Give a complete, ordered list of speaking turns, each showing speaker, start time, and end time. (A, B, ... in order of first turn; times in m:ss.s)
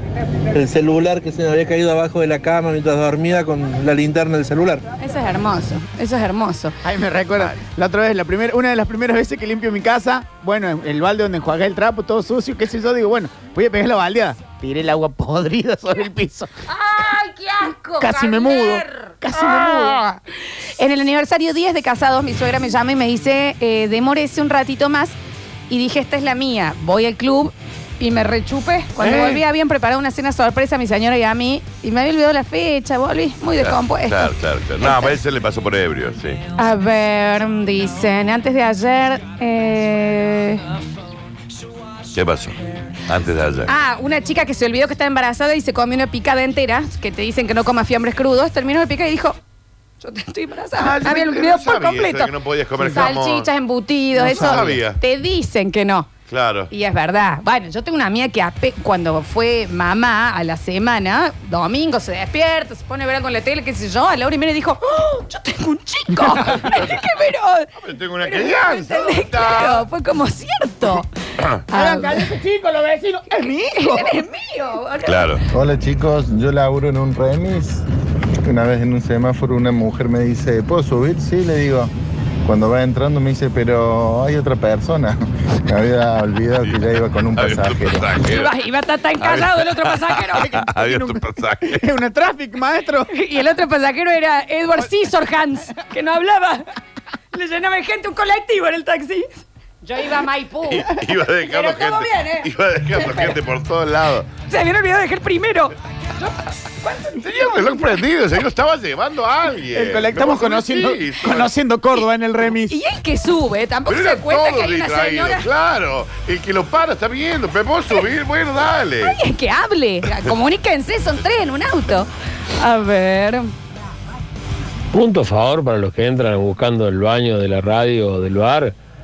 0:00.5-0:04.8 A
0:05.0-0:06.7 B
0:06.8-0:16.5 C
0:16.7-0:20.2 B
0:18.0-0:20.0 C
0:20.8-0:25.1 B
0:25.7-0:35.2 B
0:29.0-0:29.4 D
0:33.6-0:36.4 D
0:36.6-0:40.6 B
0:42.1-0:43.7 D
0:43.7-0:49.4 B
0:50.0-0:52.3 B
0:50.8-0:53.5 D
0:52.8-0:56.1 B
0:54.2-0:55.0 D
0:56.3-0:56.7 D
0:56.7-1:07.7 B
1:06.6-1:07.0 D
1:07.8-1:09.8 D
1:08.2-1:11.1 B
1:11.7-1:12.3 B
1:11.7-1:14.2 C
1:13.4-1:15.4 B
1:15.0-1:15.4 D
1:15.5-1:17.8 E
1:18.4-1:21.9 E
1:22.4-1:28.0 E
1:26.6-1:28.6 D
1:28.1-1:30.5 B
1:29.2-1:31.8 D
1:30.4-1:33.1 C
1:33.1-1:36.7 B
1:37.3-1:43.3 B
1:40.7-1:44.3 D
1:44.5-1:46.3 B
1:46.8-1:47.2 B
1:47.2-1:51.5 D
1:49.7-1:52.8 C
1:52.7-1:55.5 B
1:53.9-1:59.2 D
1:59.0-2:03.5 B
2:04.9-2:08.7 F